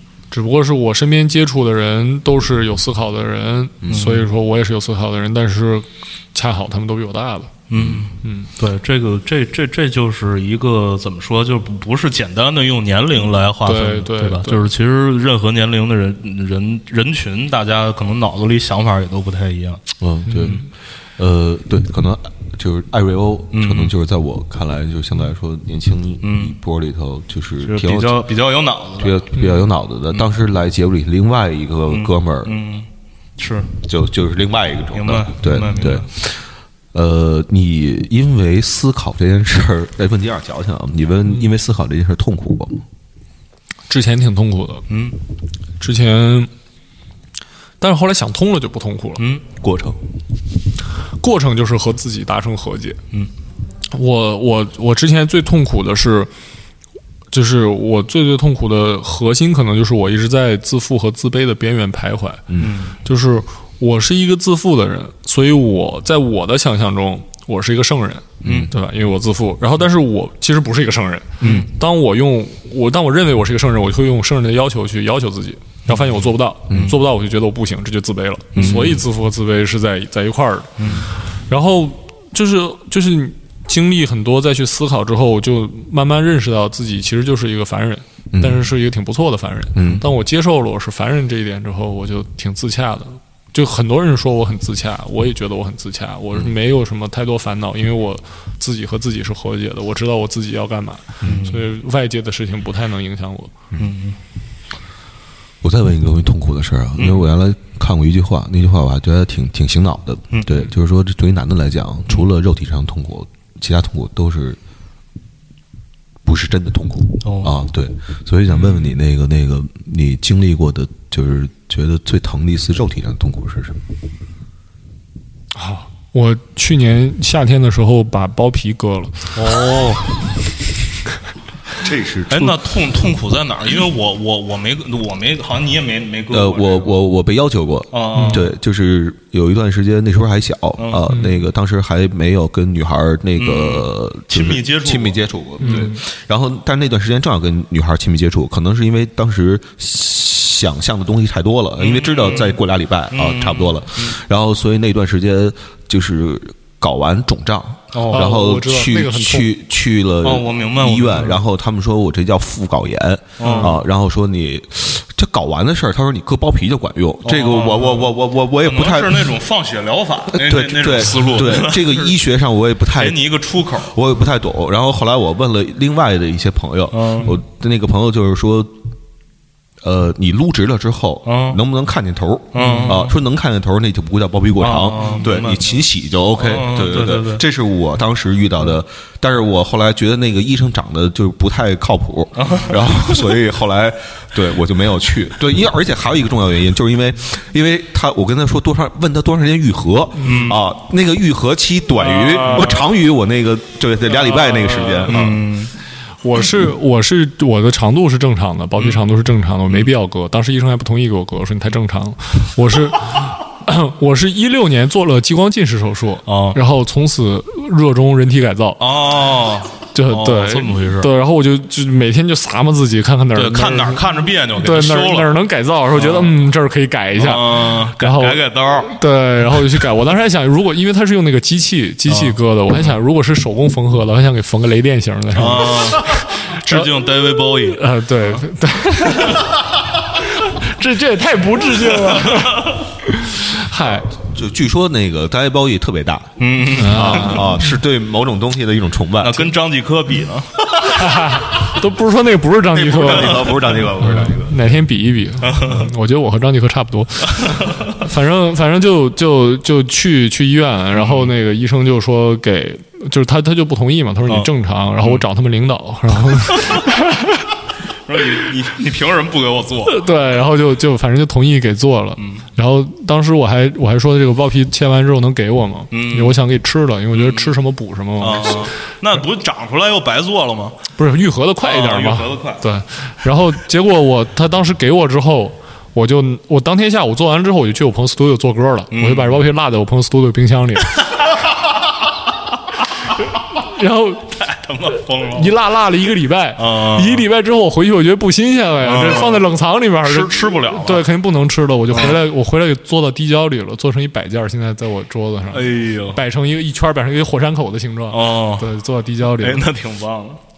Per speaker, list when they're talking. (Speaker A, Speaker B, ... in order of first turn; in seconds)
Speaker A: 0.3-7.5, 8.2-8.5, 13.6-14.7, 20.3-20.7, 29.4-29.6, 35.5-36.0, 43.9-44.9, 45.8-46.5, 47.8-49.2, 51.2-53.0, 53.9-56.3, 57.3-62.4, 63.0-80.8, 81.5-103.5, 118.5-119.0, 125.5-129.4, 138.1-138.5, 141.1-141.4, 145.6-146.0, 158.1-159.5, 163.4-163.7, 182.6-182.9, 185.0-185.2, 200.2-200.6, 202.1-202.7, 206.2-218.8, 219.9-236.9, 237.6-239.6, 240.1-244.1, 246.7-247.7, 250.8-267.5, 269.8-278.7, 281.0-291.0, 293.5-294.3, 295.3-309.7
Speaker B: 3.9-4.3, 7.7-19.8, 23.5-23.9, 26.2-26.6, 27.6-29.3, 31.9-33.7, 34.9-36.0, 44.9-45.2, 49.2-49.4, 62.6-63.0, 68.4-68.7, 71.4-71.7, 75.9-77.0, 78.5-78.9, 80.8-81.1, 101.2-101.7, 103.8-104.2, 107.0-107.2, 110.3-110.7, 117.2-117.5, 129.3-130.1, 132.3-137.0, 137.9-138.5, 140.8-141.0, 143.4-145.9, 151.8-152.6, 153.1-154.2, 157.9-158.3, 160.2-161.4, 163.4-163.8, 167.2-172.1, 172.9-173.9, 176.9-177.4, 181.2-181.6, 182.5-183.1, 184.6-185.8, 186.3-187.4, 192.3-193.3, 200.2-200.6, 202.0-202.9, 204.2-205.7, 208.8-209.1, 216.3-216.6, 218.8-221.1, 223.3-225.3, 225.9-226.4, 227.2-229.0, 232.1-232.4, 235.3-238.4, 239.0-239.4, 241.8-242.7, 246.4-247.5, 249.2-250.6, 255.4-255.9, 257.4-257.8, 260.9-261.3, 264.2-265.2, 266.6-266.9, 268.0-270.1, 272.2-272.4, 275.9-276.4, 277.1-277.6, 278.2-280.8, 281.6-282.6, 288.9-289.5, 294.3-295.6, 296.6-297.2, 298.8-299.5, 300.0-301.1, 301.9-302.2, 305.5-306.2, 308.1-308.7, 309.4-310.4
Speaker C: 7.7-8.0, 20.0-28.2, 29.0-32.5, 33.8-42.8, 49.6-50.0, 62.5-62.8, 68.4-68.7, 76.7-77.0, 78.5-79.0, 88.3-88.6, 89.7-90.0, 101.2-101.5, 105.6-114.6, 116.2-123.8, 131.8-132.6, 136.3-169.3, 170.3-178.7, 179.8-205.4, 244.1-249.5, 252.7-254.7